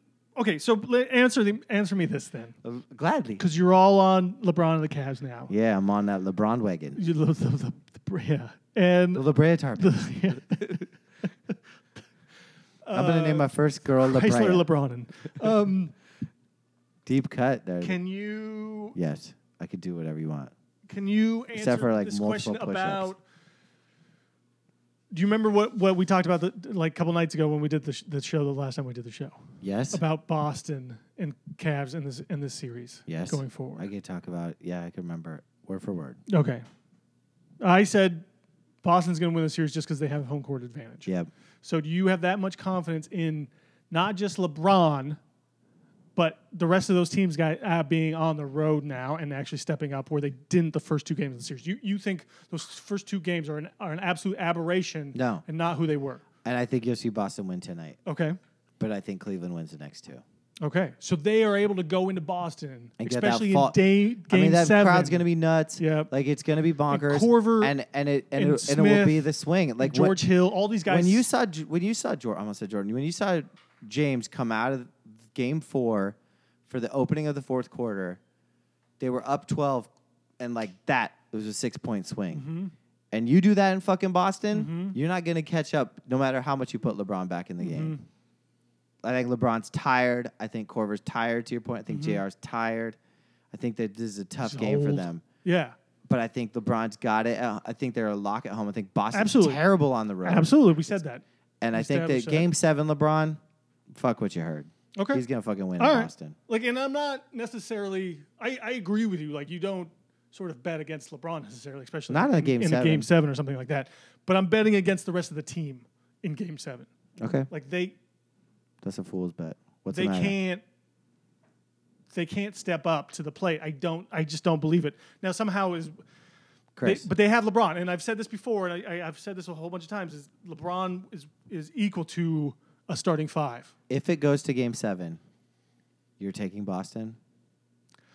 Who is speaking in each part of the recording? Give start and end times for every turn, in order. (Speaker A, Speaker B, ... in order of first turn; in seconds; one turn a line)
Speaker A: 0.4-2.6
Speaker B: 2.6-3.4
Speaker A: 3.4-5.5
Speaker B: 5.5-7.0
Speaker A: 7.0-9.3
Speaker B: 9.1-10.8
Speaker A: 9.8-10.9
Speaker A: 12.8-15.9
Speaker B: 12.9-14.7
Speaker B: 17.1-18.0
Speaker A: 17.8-19.0
Speaker B: 18.9-20.5
Speaker A: 20.9-23.2
Speaker B: 21.5-23.1
Speaker A: 25.1-29.4
Speaker B: 29.6-30.0
Speaker A: 29.9-33.9
Speaker B: 33.1-36.2
Speaker A: 36.3-36.6
Speaker A: 37.6-38.3
Speaker A: 38.8-41.1
Speaker A: 41.6-45.2
Speaker A: 46.2-56.2
Speaker B: 55.1-55.4
Speaker B: 56.4-58.0
Speaker A: 58.1-58.4
Speaker B: 58.8-60.2
Speaker A: 60.6-65.2
Speaker B: 63.0-70.2
Speaker A: 65.8-66.1
Speaker A: 66.9-67.8
Speaker A: 68.3-71.2
Speaker B: 70.9-76.2
Speaker B: 76.7-78.2
Speaker B: 79.0-82.5
Speaker A: 82.3-82.7
Speaker B: 83.1-88.0
Speaker A: 84.5-85.0
Speaker A: 87.6-88.0
Speaker B: 89.0-93.0
Speaker A: 91.9-92.2
Speaker B: 93.5-95.2
Speaker A: 94.4-95.8
Speaker B: 96.1-101.0
Speaker A: 99.1-99.6
Speaker A: 100.2-102.5
Speaker B: 101.6-103.4
Speaker B: 103.9-106.4
Speaker A: 105.0-105.2
Speaker A: 105.8-116.9
Speaker B: 112.1-113.1
Speaker B: 117.2-117.5
Speaker A: 117.5-118.0
Speaker B: 118.8-120.4
Speaker A: 119.9-120.6
Speaker A: 122.1-126.0
Speaker B: 126.8-127.1
Speaker A: 126.8-133.7
Speaker B: 133.9-135.2
Speaker B: 136.2-137.2